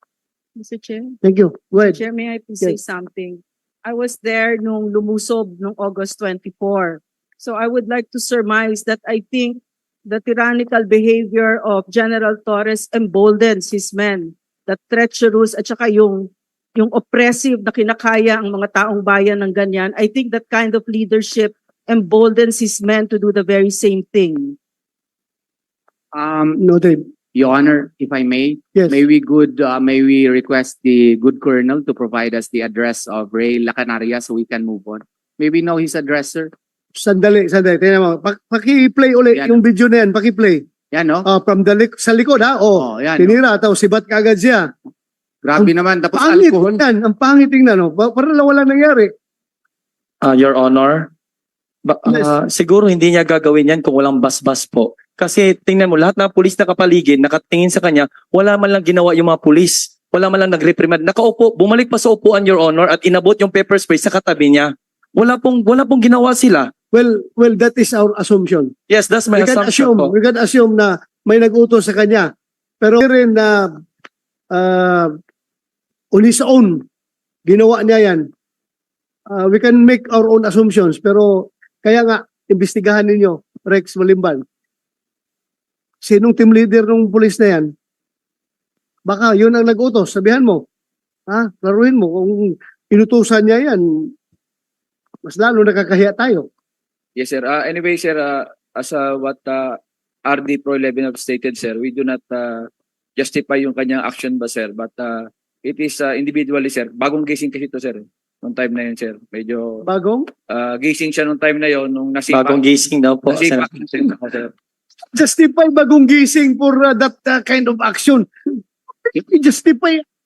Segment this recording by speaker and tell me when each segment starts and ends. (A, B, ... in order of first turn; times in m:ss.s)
0:00.6-0:01.2 A
0:01.2-0:02.0 B
0:01.8-0:24.6 A
0:26.1-0:26.6 C
0:26.6-0:27.0 B
0:27.4-0:36.5 C
0:37.0-0:40.6 B
0:40.9-0:41.3 C
0:41.2-0:44.7 B
0:42.8-0:43.4 C
0:45.4-0:46.8 C
0:45.6-0:49.1 B
0:50.2-0:51.1 D
0:51.8-1:06.7 D
1:06.9-1:08.7 B
1:08.9-1:10.1 D
1:09.4-1:12.3 B
1:12.8-1:13.7 B
1:14.5-1:15.1 B
1:16.1-1:16.8 B
1:17.5-1:18.3 B
1:19.3-1:24.4 B
1:26.0-1:27.7 B
1:29.1-1:30.6 B
1:31.3-1:34.1 B
1:35.2-1:36.5 B
1:37.2-1:49.9 E
1:49.8-1:50.3 B
1:50.5-1:52.7 E
1:52.3-1:53.7 D
1:53.3-1:54.5 E
1:55.1-2:00.0 B